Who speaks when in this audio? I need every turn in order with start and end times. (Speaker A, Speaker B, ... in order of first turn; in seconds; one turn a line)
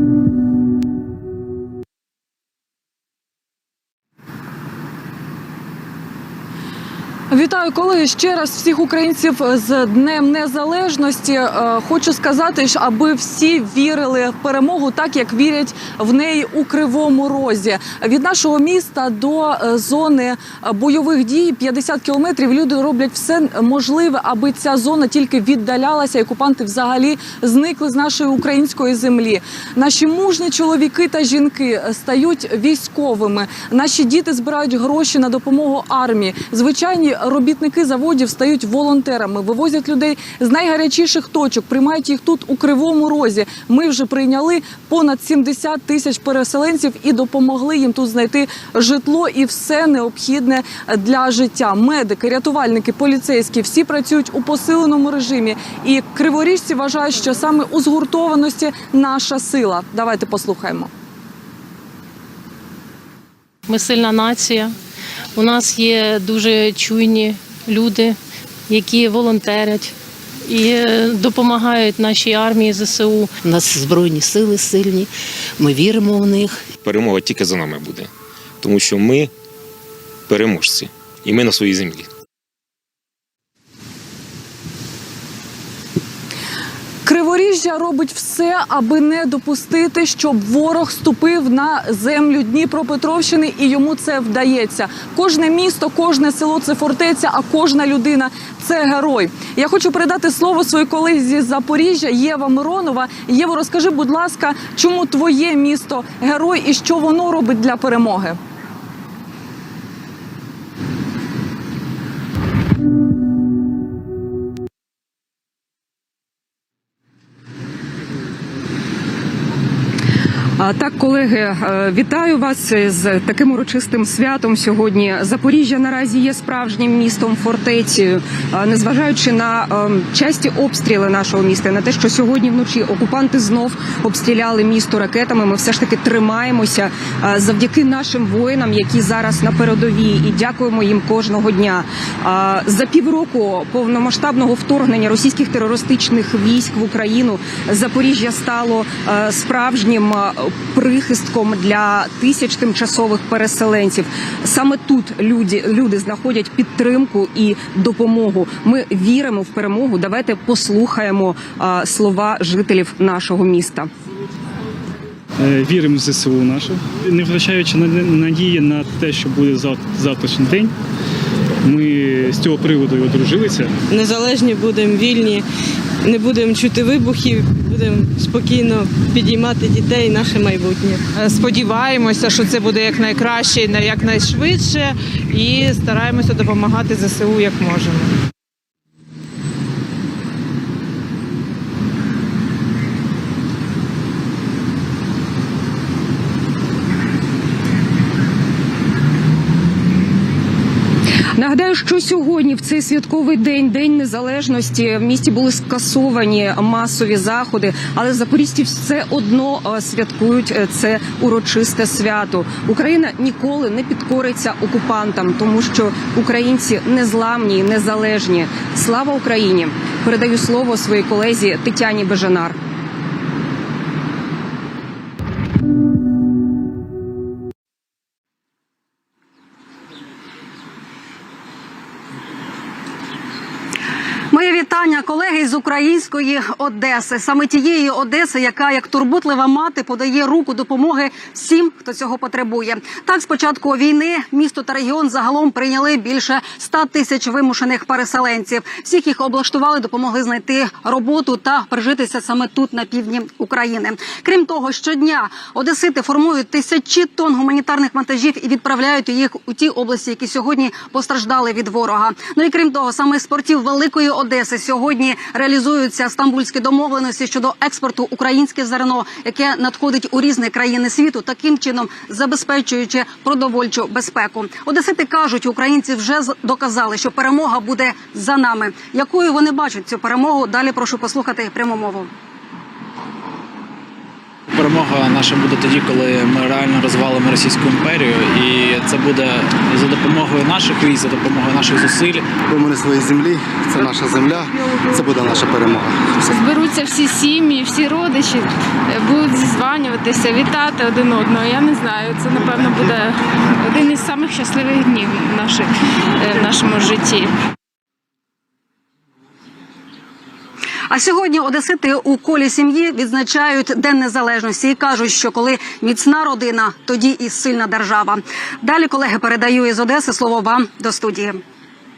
Speaker A: 7.3-60.9
Speaker B: 63.7-64.7
Speaker B: 65.3-68.2
Speaker B: 68.7-69.9
Speaker B: 70.5-73.3
Speaker C: 73.4-76.6
Speaker D: 76.8-78.1
Speaker D: 78.6-79.3
Speaker D: 80.3-82.1
Speaker A: 87.0-108.4
Speaker E: 120.6-163.9
Speaker F: 165.4-170.7
Speaker F: 171.7-173.7
Speaker G: 173.9-175.4
Speaker G: 176.0-181.0
Speaker H: 181.2-188.1
Speaker E: 201.3-222.6
Speaker I: 234.3-282.1
Speaker J: 284.5-292.3
Speaker K: 292.5-296.0
Speaker L: 296.2-307.3
Speaker I: 310.9-321.4